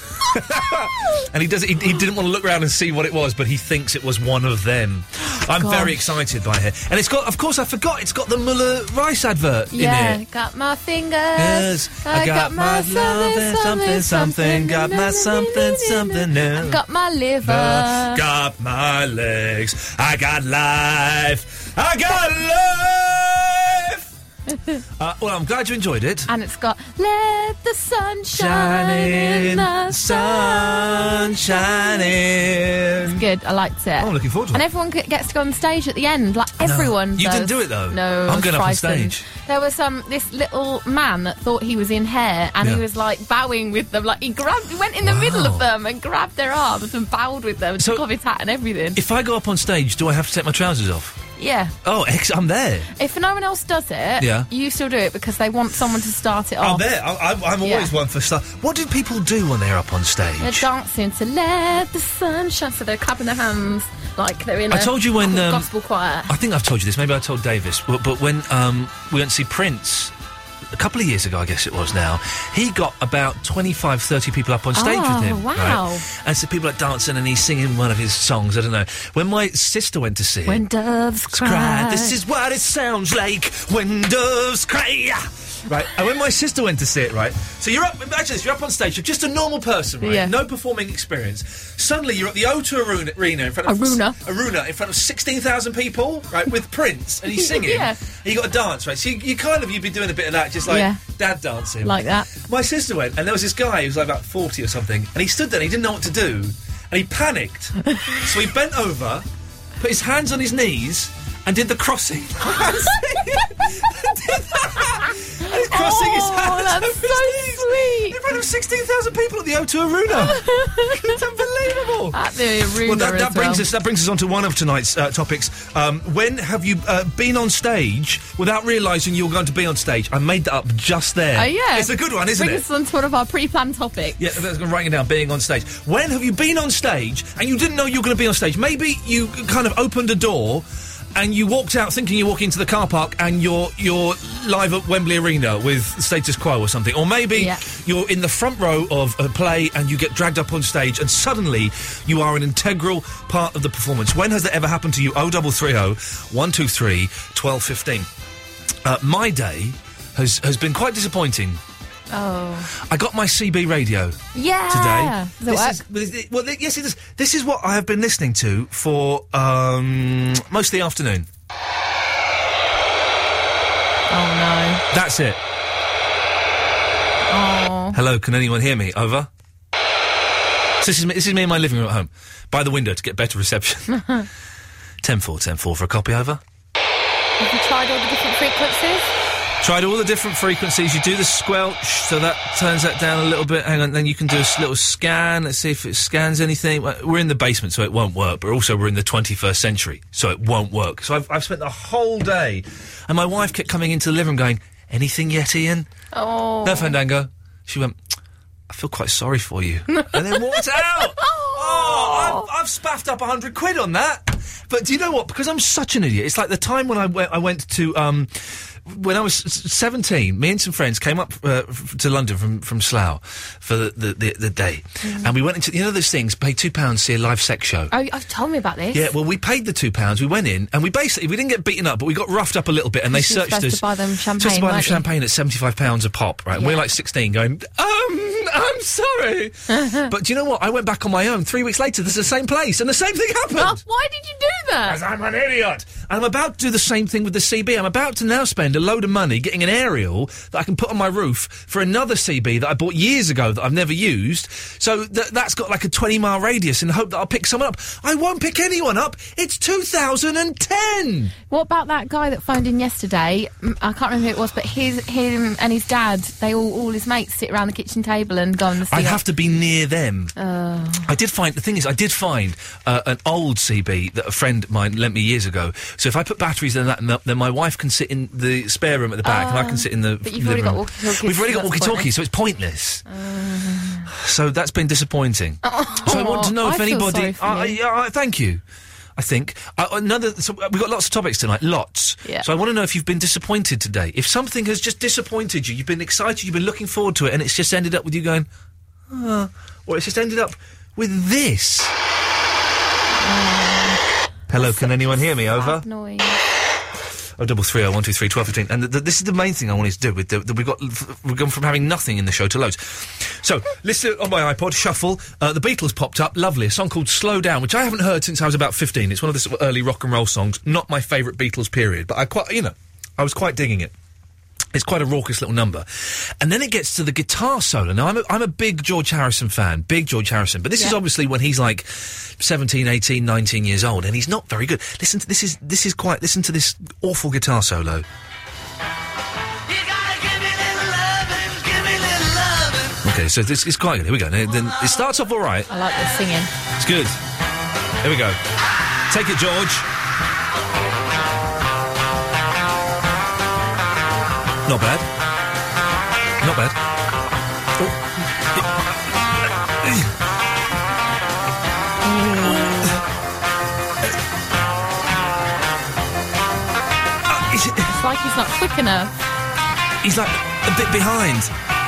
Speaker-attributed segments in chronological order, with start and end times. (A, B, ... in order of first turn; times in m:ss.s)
0:00.3-0:10.2 A
0:05.4-0:06.0 B
0:09.7-0:18.2 B
0:11.4-0:16.8 A
0:17.4-0:24.1 A
0:24.5-0:24.8 B
0:25.0-0:26.3 A
0:26.3-0:32.1 B
0:28.3-0:33.2 A
0:33.1-0:49.0 B
0:34.0-0:34.6 A
0:36.6-0:39.2 A
0:45.0-0:45.7 A
0:47.8-0:48.0 A
0:48.9-0:51.2 A
0:51.4-0:51.7 B
0:51.8-0:52.9 A
0:53.0-0:56.8 B
0:54.2-0:54.5 A
0:56.6-1:00.6 A
0:57.6-0:57.9 B
1:00.4-1:06.3 B
1:04.7-1:05.7 A
1:06.3-1:10.1 A
1:10.7-1:20.6 A
1:14.7-1:16.0 B
1:20.4-1:22.2 B
1:21.3-1:49.2 A
1:30.0-1:30.3 B
1:33.7-1:34.2 B
1:37.3-1:38.0 B
1:40.7-1:41.0 B
1:41.8-1:42.3 B
1:49.8-2:02.2 A
1:55.4-1:58.2 B
2:00.1-2:01.1 B
2:02.1-2:03.6 B
2:02.8-2:12.6 A
2:11.4-2:14.3 B
2:14.2-2:38.1 A
2:27.3-2:27.6 B
2:38.8-2:41.6 A
2:42.1-2:42.7 B
2:42.8-2:51.3 A
2:44.3-2:45.8 B
2:54.1-2:54.8 B
2:54.9-2:55.4 A
2:57.3-2:58.0 B
2:57.9-2:59.3 A
3:00.8-3:04.0 A
3:05.0-3:06.4 A
3:07.4-3:09.1 B
3:09.6-3:25.9 A
3:26.1-3:26.9 B
3:26.6-3:28.0 A
3:28.7-3:47.9 A
3:29.9-3:32.5 B
3:45.0-3:45.3 B
3:47.9-3:49.1 B
3:48.9-3:53.8 A
3:53.1-3:55.0 B
3:54.4-4:03.8 A
3:59.7-4:00.1 B
4:03.6-4:05.0 B
4:04.8-4:21.3 A
4:21.5-4:29.2 B
4:28.9-4:30.3 A
4:30.4-4:31.1 B
4:31.0-4:43.0 A
4:39.2-4:42.1 B
4:43.1-4:44.1 B
4:44.1-4:48.6 A
4:45.6-4:47.8 B
4:49.2-4:58.5 A
4:59.1-5:01.9 A
5:03.2-5:04.0 B
5:04.5-5:05.8 A
5:04.6-5:06.4 B
5:07.4-5:23.9 A
5:24.7-5:38.0 A
5:43.0-5:45.7 A
5:45.7-5:46.5 B
5:46.8-5:47.2 A
5:48.0-5:48.4 A
5:49.1-5:49.9 A
5:54.6-5:55.1 A
5:56.4-5:56.8 A
5:59.8-6:00.1 A
6:02.1-6:02.7 B
6:02.4-6:03.0 A
6:07.3-6:07.9 A
6:07.9-6:09.1 B
6:10.0-6:11.5 A